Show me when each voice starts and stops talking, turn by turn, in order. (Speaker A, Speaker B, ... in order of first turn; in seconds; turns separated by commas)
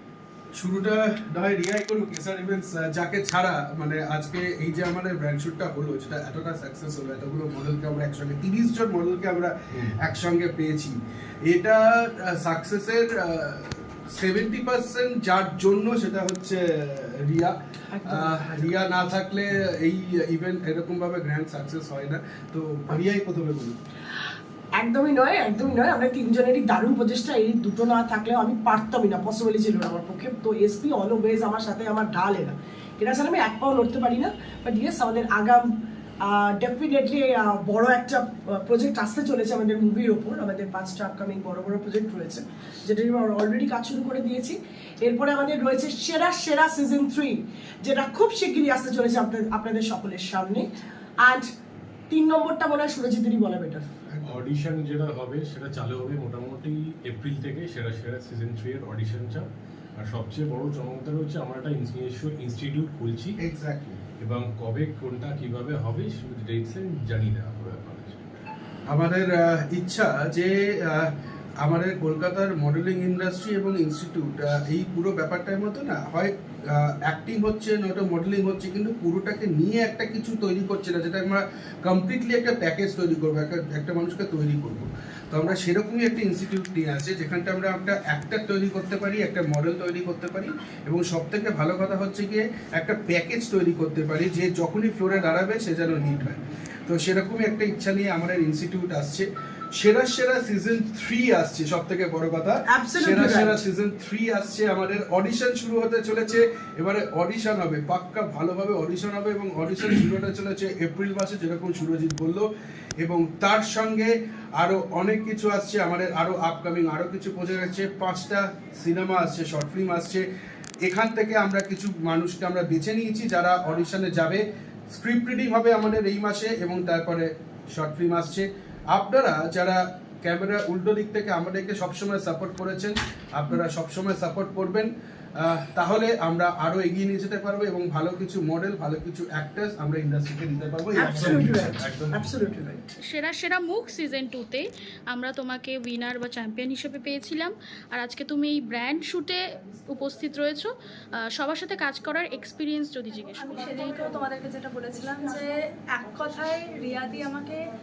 Speaker A: 0.6-23.8, Speaker B: 24.8-35.6, Speaker B: 36.3-50.7, Speaker B: 52.1-53.9, Speaker A: 54.1-54.5, Speaker C: 54.2-63.4, Speaker A: 63.4-64.0, Speaker C: 64.2-68.2, Speaker A: 68.9-71.1, Speaker A: 71.6-112.5, Speaker B: 102.8-103.5, Speaker A: 113.0-120.2, Speaker A: 120.8-141.8, Speaker B: 141.0-142.8, Speaker C: 141.1-142.4, Speaker D: 143.1-150.7, Speaker D: 151.3-153.5, Speaker E: 153.4-157.6